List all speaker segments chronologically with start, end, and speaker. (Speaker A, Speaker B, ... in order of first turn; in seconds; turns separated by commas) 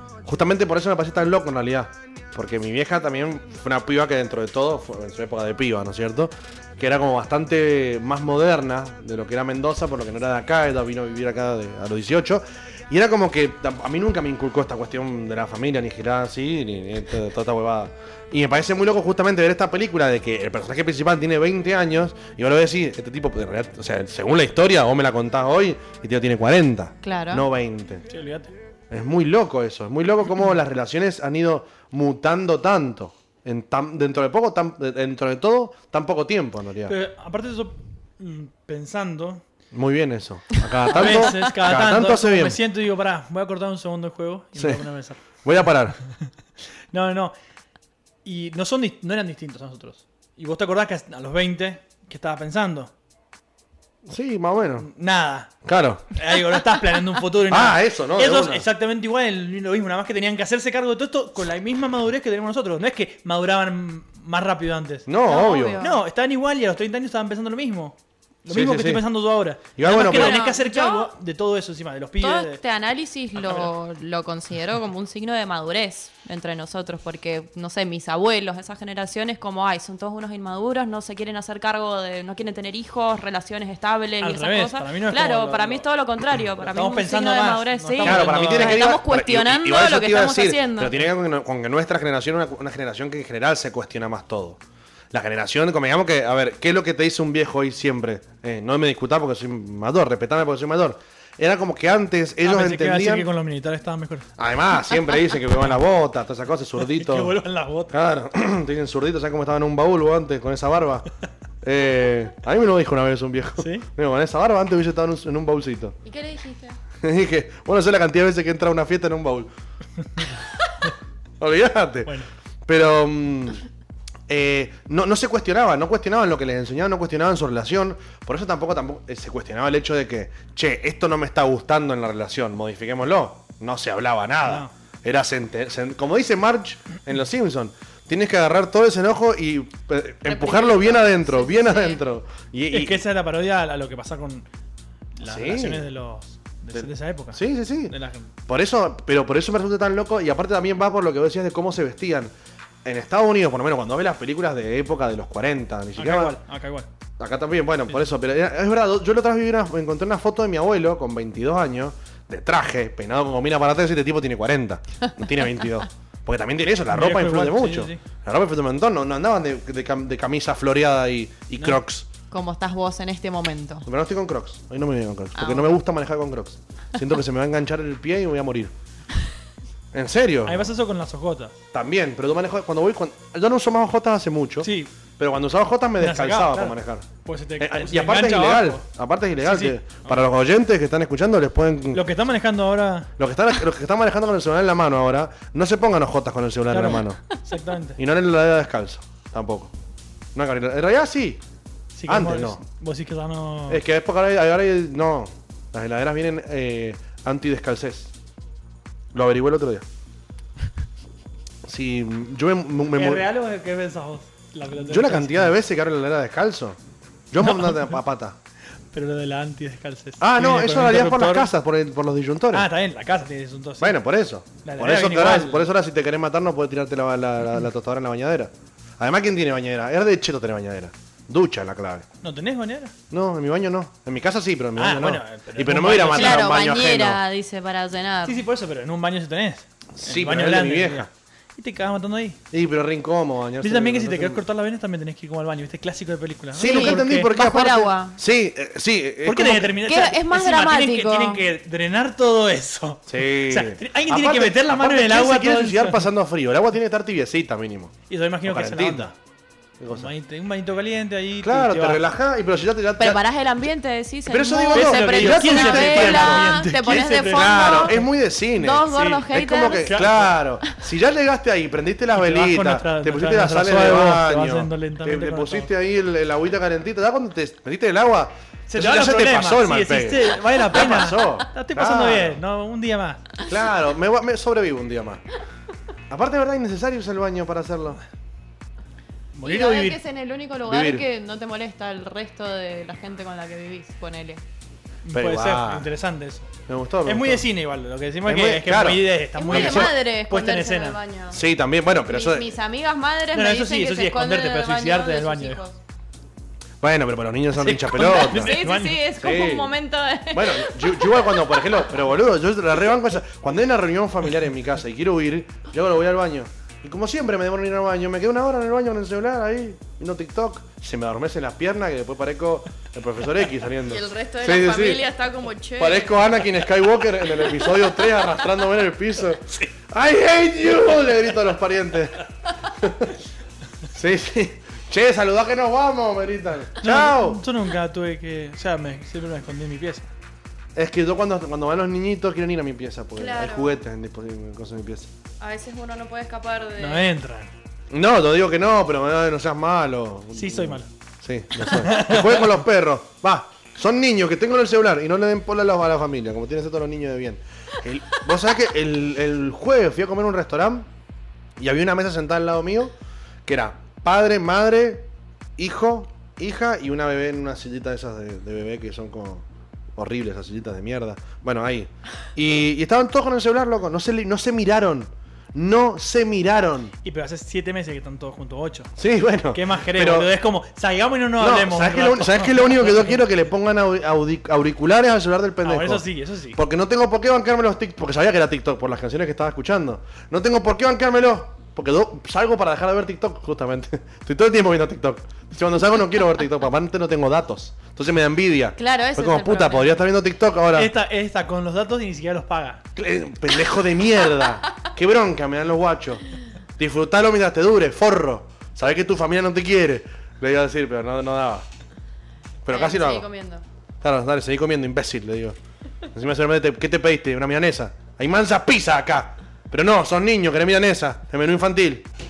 Speaker A: 0.2-28.1, Speaker B: 27.0-27.4, Speaker C: 28.1-28.5, Speaker A: 28.9-36.9, Speaker C: 36.9-39.4, Speaker A: 39.7-42.6, Speaker C: 40.9-45.2, Speaker A: 44.5-44.8, Speaker A: 45.4-46.0, Speaker C: 46.9-47.3, Speaker C: 48.2-52.9, Speaker A: 54.0-54.9, Speaker C: 54.8-55.5, Speaker A: 55.6-56.1, Speaker C: 56.1-65.1, Speaker A: 57.5-58.6, Speaker A: 65.1-65.8, Speaker B: 65.2-66.0, Speaker C: 65.8-72.6, Speaker A: 68.5-69.0, Speaker A: 69.8-70.4, Speaker B: 69.8-71.1, Speaker B: 72.2-91.0, Speaker C: 73.3-73.7, Speaker C: 84.2-85.8, Speaker C: 86.6-88.8, Speaker A: 88.0-94.6, Speaker A: 95.1-103.3, Speaker C: 102.4-104.3, Speaker A: 104.4-107.3, Speaker C: 106.8-107.9, Speaker A: 107.9-111.0, Speaker A: 111.6-116.0, Speaker C: 113.6-113.9, Speaker B: 116.0-116.8, Speaker A: 117.0-119.5, Speaker A: 121.4-123.6, Speaker A: 124.3-143.0, Speaker C: 134.4-134.7, Speaker B: 140.2-142.0, Speaker C: 142.7-144.5, Speaker C: 145.2-148.3, Speaker A: 145.2-145.8, Speaker A: 146.7-147.9, Speaker A: 148.5-152.3, Speaker A: 152.8-156.4, Speaker C: 155.9-156.9, Speaker A: 157.2-172.1, Speaker C: 166.9-168.0, Speaker B: 172.3-173.9, Speaker A: 173.8-178.7, Speaker B: 175.3-175.7, Speaker A: 179.9-180.7, Speaker C: 180.4-181.5, Speaker A: 181.7-187.1, Speaker C: 184.6-184.9, Speaker C: 186.0-188.8, Speaker A: 187.6-192.1, Speaker C: 189.4-190.2, Speaker C: 191.9-193.1, Speaker A: 193.2-197.2, Speaker C: 196.7-198.0, Speaker A: 198.0-199.7, Speaker A: 200.3-201.4, Speaker C: 201.9-203.8, Speaker A: 202.1-202.6, Speaker A: 203.7-208.1, Speaker A: 209.1-209.8, Speaker A: 211.6-213.3, Speaker C: 212.9-215.6, Speaker A: 214.8-216.8, Speaker A: 217.3-218.3, Speaker C: 217.4-218.0, Speaker C: 218.9-221.5, Speaker A: 220.2-222.7, Speaker C: 222.5-224.0, Speaker A: 223.8-232.1, Speaker C: 224.6-225.7, Speaker C: 232.2-232.9, Speaker A: 233.1-237.2, Speaker C: 234.8-236.5, Speaker B: 236.0-238.4, Speaker C: 238.2-242.4, Speaker A: 239.9-241.1, Speaker A: 242.5-244.4, Speaker C: 243.6-247.3, Speaker A: 246.5-249.8, Speaker B: 246.6-248.2, Speaker C: 249.2-256.0, Speaker B: 249.8-251.4, Speaker A: 253.1-259.1, Speaker C: 258.1-259.1, Speaker A: 259.8-260.1, Speaker C: 259.9-262.0, Speaker A: 261.4-263.2, Speaker B: 263.0-268.0, Speaker A: 264.3-266.5, Speaker C: 264.7-268.1, Speaker A: 267.3-282.4, Speaker B: 268.5-270.0, Speaker C: 268.9-270.3, Speaker C: 272.1-275.7, Speaker C: 278.7-283.3, Speaker A: 283.4-285.2, Speaker A: 286.1-288.0, Speaker C: 289.3-290.0, Speaker B: 289.4-294.4, Speaker A: 290.7-291.1, Speaker C: 295.0-296.5, Speaker A: 295.1-295.9, Speaker A: 296.7-297.5, Speaker C: 297.0-301.0, Speaker A: 298.2-299.9, Speaker B: 299.4-301.4, Speaker A: 301.3-302.5, Speaker B: 302.1-305.8, Speaker C: 303.3-305.6, Speaker A: 306.8-308.6, Speaker C: 307.5-309.0, Speaker B: 307.9-311.8, Speaker A: 309.1-309.7, Speaker A: 310.3-325.0, Speaker B: 323.8-326.2, Speaker A: 325.8-333.2, Speaker A: 333.9-337.4, Speaker C: 336.8-340.1, Speaker A: 340.8-345.1, Speaker B: 343.2-343.7, Speaker B: 345.4-347.1, Speaker C: 346.8-347.5, Speaker A: 347.9-360.9, Speaker C: 350.3-350.9, Speaker C: 351.8-352.4, Speaker A: 361.6-362.9, Speaker A: 363.4-369.4, Speaker A: 369.9-376.9, Speaker C: 377.0-378.9, Speaker A: 379.0-380.3, Speaker C: 379.5-383.2, Speaker A: 381.4-400.9, Speaker C: 385.6-386.6, Speaker B: 398.8-400.0, Speaker C: 400.7-402.8, Speaker A: 402.9-406.2, Speaker A: 406.8-411.6, Speaker A: 412.6-413.3, Speaker B: 412.7-413.6, Speaker A: 414.0-415.6, Speaker A: 416.1-422.1